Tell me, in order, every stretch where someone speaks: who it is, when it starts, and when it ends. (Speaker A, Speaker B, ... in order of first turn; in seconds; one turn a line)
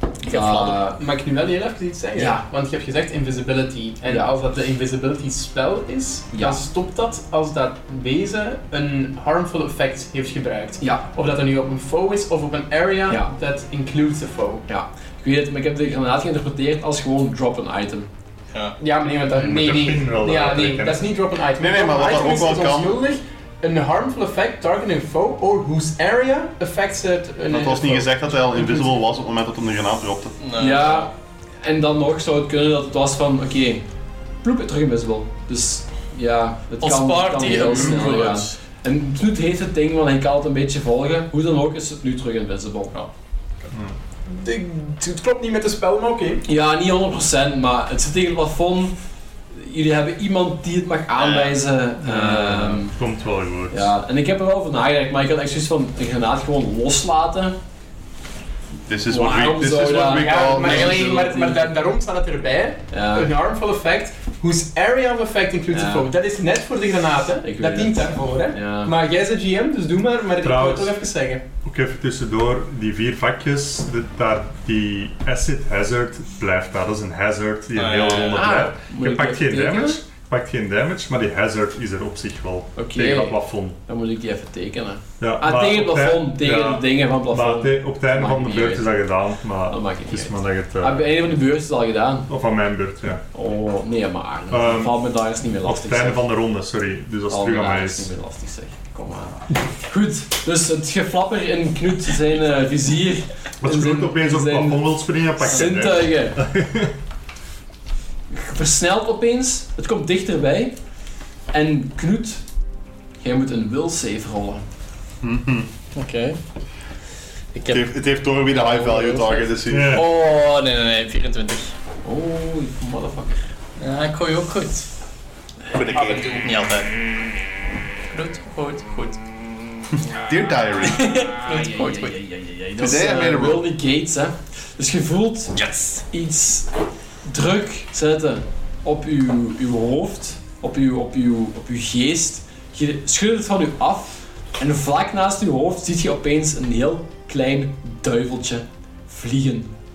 Speaker A: 0.2-1.0
Speaker B: 0.2-0.8
Speaker C: 0.8-14.7
Speaker A: 2.2-2.4
Speaker A: 6.3-6.7
Speaker A: 10.8-11.1
Speaker A: 14.7-18.1
Speaker C: 18.8-28.9
Speaker D: 19.4-21.0
Speaker E: 21.6-23.0
Speaker E: 27.5-30.4
Speaker B: 30.4-31.1
Speaker A: 30.6-33.9
Speaker A: 34.4-42.9
Speaker B: 36.8-38.5
Speaker D: 43.7-44.0
Speaker C: 44.3-46.5
Speaker A: 46.5-49.0
Speaker A: 49.5-53.0
Speaker B: 51.2-51.6
Speaker D: 52.0-53.9
Speaker A: 53.7-57.6
Speaker E: 58.9-61.3
Speaker A: 59.1-61.8
Speaker C: 60.1-71.4
Speaker A: 62.9-63.3
Speaker A: 65.7-66.1
Speaker A: 67.4-68.9
Speaker D: 70.4-70.9
Speaker D: 71.6-83.8
Speaker B: 77.8-78.5
Speaker A: 78.3-80.0
Speaker A: 82.8-89.0
Speaker D: 85.2-91.2
Speaker A: 89.7-92.3
Speaker D: 92.3-93.2
Speaker A: 93.3-96.3
Speaker D: 94.5-98.1
Speaker A: 97.3-106.4
Speaker D: 103.6-107.0
Speaker A: 108.3-110.8
Speaker A: 111.5-112.4
Speaker A: 113.2-114.6
Speaker E: 115.2-115.7
Speaker B: 116.0-116.4
Speaker B: 117.5-117.8
Speaker E: 117.7-120.0
Speaker B: 118.3-121.8
Speaker D: 119.7-120.1
Speaker A: 122.0-123.5
Speaker B: 123.8-124.9
Speaker E: 125.7-126.4
Speaker C: 125.9-126.5
Speaker B: 126.3-126.9
Speaker B: 128.1-129.2
Speaker E: 130.2-131.1
Speaker A: 130.9-136.8
Speaker B: 131.0-132.1
Speaker E: 132.8-133.7
Speaker B: 135.6-136.0
Speaker A: 137.3-149.8